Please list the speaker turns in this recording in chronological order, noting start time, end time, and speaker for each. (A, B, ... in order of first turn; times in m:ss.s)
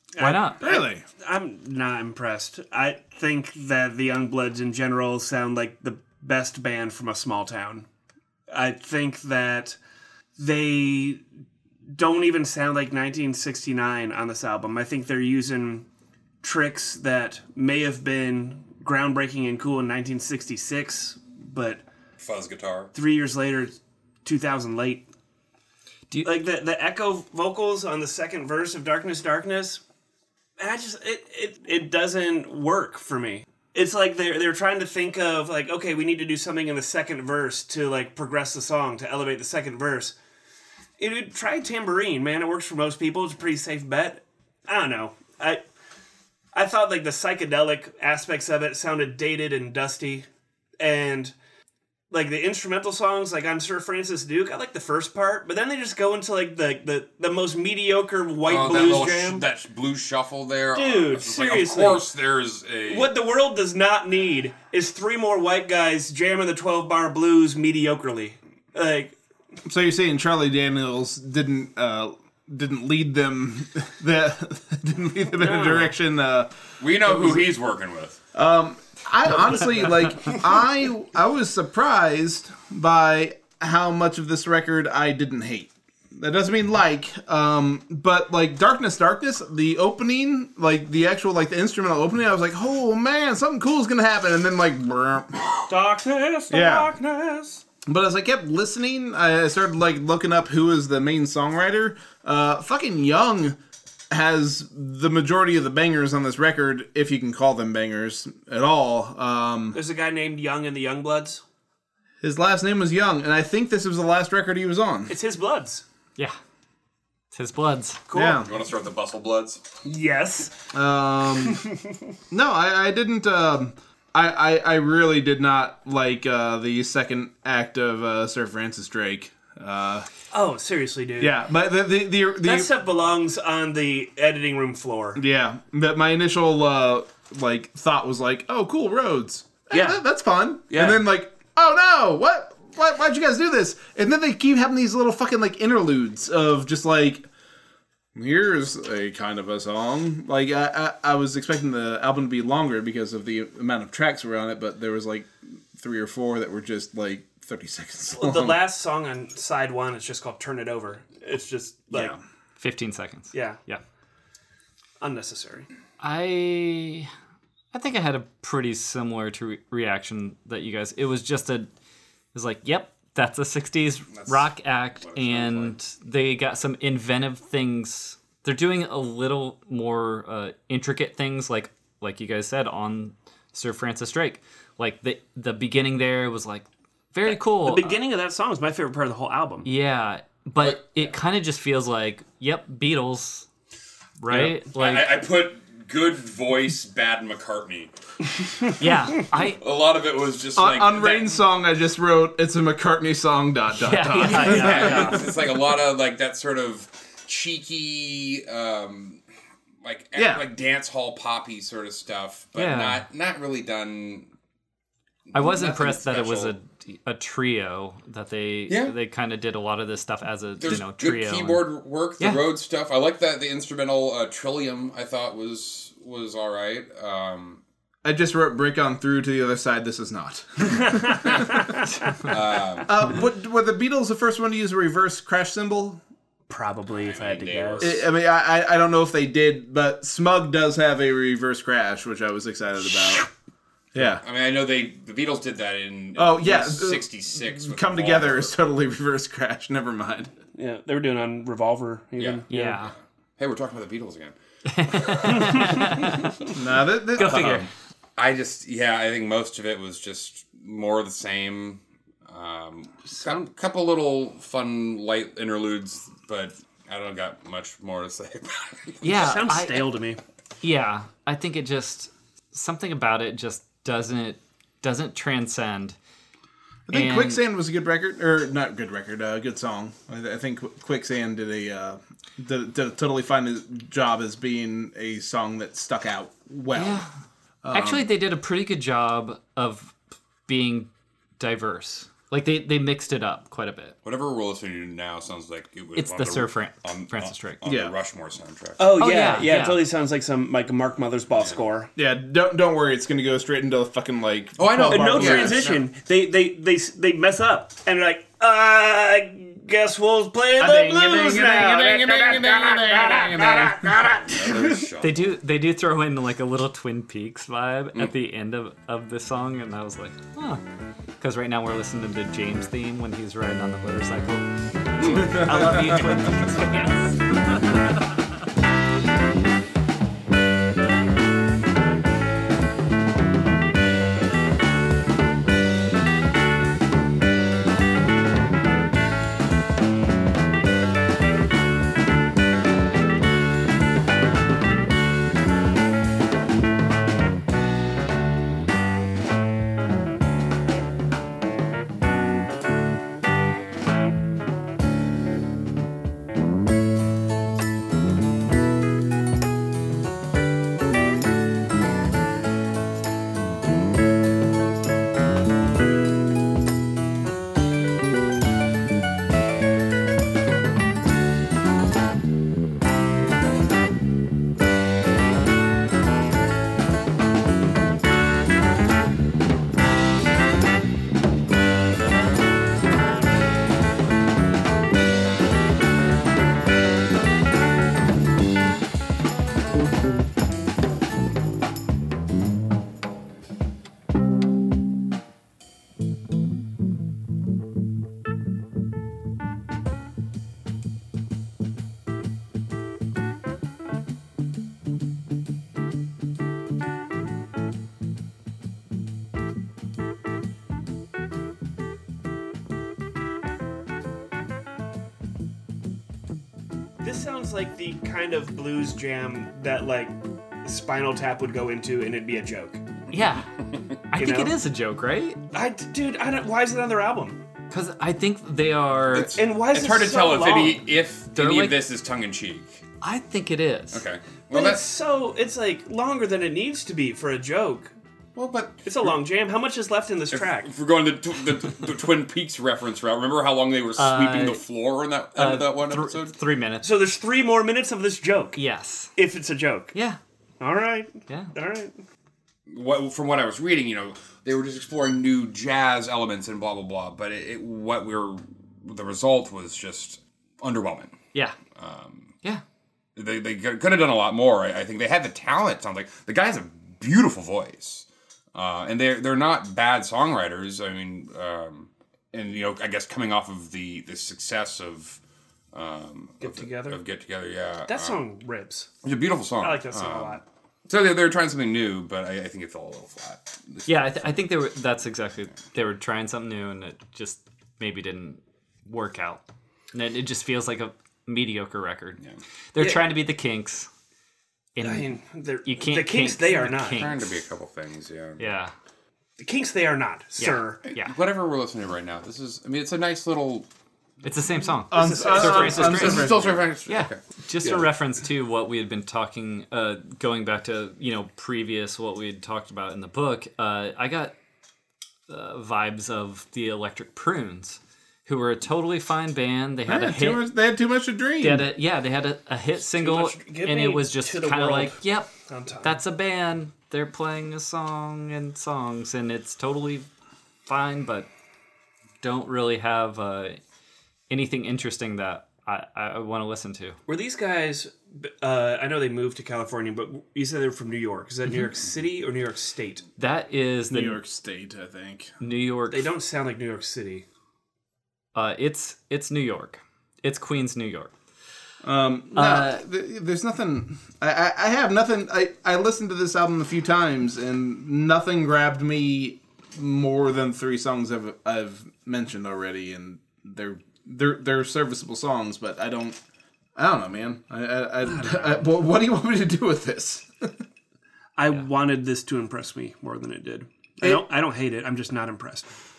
0:00.2-0:07.8 A
0:00.2-0:00.6 B
0:00.6-0:01.0 C
0:08.5-0:09.8 A
0:10.4-0:11.2 A
0:11.9-0:15.8 A
0:16.4-0:21.8 A
0:22.2-0:22.9 D
0:22.9-0:25.0 A
0:26.2-0:29.8 A
0:30.6-0:40.1 A
0:41.0-0:45.6 A
0:46.5-0:50.2 A
0:50.8-0:51.3 A
0:52.1-0:59.5 A
0:58.4-1:03.1 D
1:00.7-1:02.1 A
1:02.8-1:09.1 A
1:09.6-1:16.5 C
1:15.4-1:15.9 A
1:16.8-1:18.2 D
1:17.0-1:17.5 C
1:18.3-1:35.5 C
1:35.7-1:37.6 A
1:36.5-1:36.9 C
1:37.8-1:43.6 C
1:44.1-1:49.8 C
1:49.7-1:51.4 A
1:52.2-1:55.1 C
1:55.1-1:55.8 A
1:57.3-1:58.0 B
1:58.1-1:58.4 A
1:58.1-1:58.5 C
1:58.4-1:59.6 D
1:59.8-2:00.6 A
2:00.7-2:01.6 C
2:01.4-2:01.8 A
2:02.3-2:10.1 C
2:10.3-2:11.4 A
2:11.2-2:12.7 C
2:12.4-2:15.2 A
2:15.1-2:27.3 C
2:19.7-2:20.0 A
2:20.7-2:21.0 A
2:28.1-2:38.6 C
2:38.1-2:42.1 A
2:41.9-2:42.2 C
2:42.6-2:43.8 B
2:43.3-2:43.6 A
2:45.0-2:45.7 A
2:46.0-2:47.1 B
2:47.7-2:51.7 B
2:52.3-3:08.0 B
2:54.1-2:55.8 D
3:07.3-3:09.7 A
3:09.6-3:13.4 B
3:10.6-3:11.2 D
3:14.2-3:15.2 B
3:14.3-3:17.9 D
3:18.8-3:19.6 B
3:19.6-3:21.3 D
3:20.5-3:25.3 C
3:23.8-3:25.2 B
3:24.2-3:29.2 D
3:29.8-3:34.3 D
3:30.2-3:30.4 C
3:32.5-3:33.0 B
3:35.3-3:36.6 D
3:35.3-3:42.5 B
3:38.7-3:38.9 D
3:40.6-3:47.6 D
3:48.0-3:51.6 C
3:51.2-3:51.7 A
3:52.2-3:53.0 D
3:52.8-3:56.0 C
3:56.5-3:57.9 A
3:56.9-3:58.0 D
3:57.8-4:03.3 C
4:03.9-4:04.2 C
4:04.0-4:08.5 D
4:06.1-4:10.3 C
4:10.5-4:12.8 A
4:12.2-4:14.4 D
4:12.5-4:12.9 B
4:14.6-4:16.3 B
4:15.4-4:15.9 A
4:16.5-4:17.6 C
4:17.2-4:17.7 B
4:17.2-4:29.1 D
4:23.1-4:23.4 A
4:29.0-4:29.8 B
4:29.1-4:30.2 A
4:30.6-4:36.0 B
4:36.9-4:47.0 C
4:36.9-4:37.4 B
4:46.7-4:47.1 B
4:47.6-4:48.1 C
4:47.7-4:49.9 B
4:50.5-4:54.0 B
4:54.0-4:59.0 D
4:55.9-4:57.6 B
4:57.6-4:57.9 C
4:58.8-5:01.9 A
4:59.0-4:59.8 B
5:01.4-5:01.6 D
5:02.0-5:05.8 C
5:04.6-5:05.8 D
5:04.8-5:13.9 A
5:10.6-5:14.8 C
5:14.3-5:15.3 D
5:15.0-5:20.6 B
5:21.2-5:24.4 B
5:25.0-5:26.3 D
5:25.0-5:28.1 B
6:57.0-7:02.8 A
7:03.1-7:03.5 B
7:04.1-7:05.4 B
7:04.2-7:04.6 A
7:05.5-7:07.4 A
7:07.7-7:09.3 B
7:09.1-7:12.8 D
7:09.3-7:10.8 A
7:11.3-7:11.8 B
7:13.0-7:14.0 B
7:13.9-7:14.9 D
7:14.5-7:17.9 A
7:18.4-7:19.1 D
7:18.8-7:20.7 A
7:20.3-7:26.3 D
7:24.0-7:24.6 B
7:25.3-7:26.9 B
7:26.8-7:28.6 A
7:28.5-7:29.1 B
7:29.2-7:29.9 A
7:29.9-7:30.2 B
7:30.6-7:32.0 A
7:32.7-7:41.1 D
7:41.8-7:42.3 D
7:43.2-7:55.2 D
7:55.7-7:58.2 D
7:56.4-7:57.0 A
7:57.9-7:58.9 A
7:59.0-8:04.4 D
7:59.6-8:00.4 A
8:03.9-8:09.4 B
8:09.9-8:12.2 B
8:12.7-8:13.9 B
8:14.8-8:17.4 B
8:14.8-8:17.1 A
8:16.9-8:18.5 D
8:18.4-8:18.7 B
8:19.4-8:20.8 A
8:20.4-8:21.1 B
8:20.9-8:23.7 D
8:24.2-8:26.3 B
8:24.9-8:26.6 C
8:24.9-8:26.1 A
8:25.8-8:27.2 D
8:26.9-8:34.3 B
8:35.3-8:40.4 B
8:39.9-8:41.7 C
8:41.4-8:45.3 B
8:42.8-8:46.0 A
8:45.8-8:50.1 B
8:50.6-8:51.3 B
8:52.2-8:53.6 B
8:54.3-8:57.0 B
8:57.1-9:03.0 A
9:03.2-9:04.2 B
9:03.9-9:05.3 C
9:05.4-9:06.1 B
9:05.9-9:07.2 A
9:08.3-9:11.1 B
9:11.8-9:26.2 C
9:12.3-9:12.8 B
9:26.8-9:30.3 C
9:28.0-9:28.7 A
9:31.4-9:35.7 A